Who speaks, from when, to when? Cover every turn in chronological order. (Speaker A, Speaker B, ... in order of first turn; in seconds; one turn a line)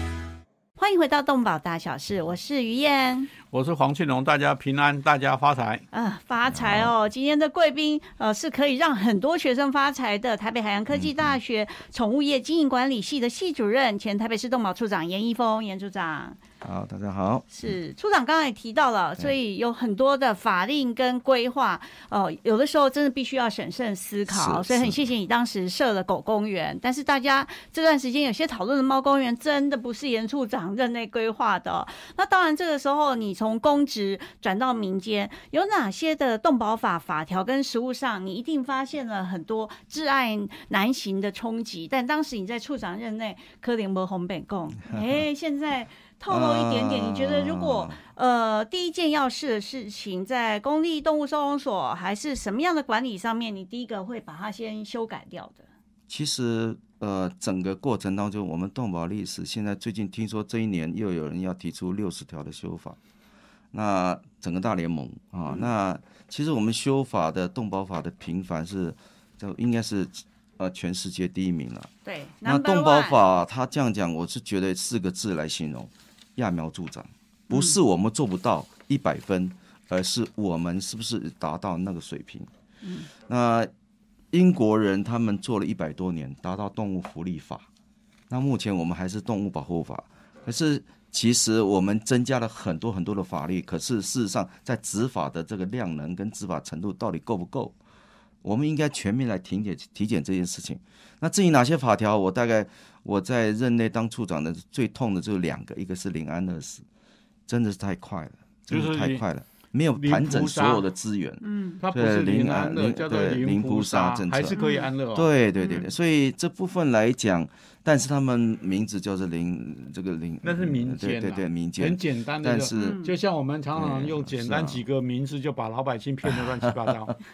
Speaker A: 0.8-3.3
Speaker B: 3.5-5.8
Speaker A: 5.9-16.4
Speaker C: 6.5-6.9
Speaker C: 10.9-11.3
Speaker C: 16.6-17.7
Speaker A: 17.5-55.7
Speaker C: 24.3-25.0
Speaker C: 46.3-48.0
Speaker C: 56.1-63.0
Speaker C: 63.7-71.9
Speaker A: 72.0-73.2
Speaker C: 72.4-82.5
Speaker A: 77.5-77.8
Speaker A: 82.8-83.1
Speaker C: 83.2-83.7
Speaker C: 84.3-87.7
Speaker C: 88.3-97.7
Speaker C: 98.4-106.8
Speaker C: 107.5-114.6
Speaker B: 108.7-109.2
Speaker B: 109.9-110.8
Speaker A: 111.4-111.8
Speaker B: 111.8-115.3
Speaker A: 114.5-114.9
Speaker C: 115.1-123.0
Speaker A: 115.6-115.8
Speaker B: 120.4-127.2
Speaker A: 122.7-123.1
Speaker C: 123.7-124.8
Speaker C: 126.2-127.0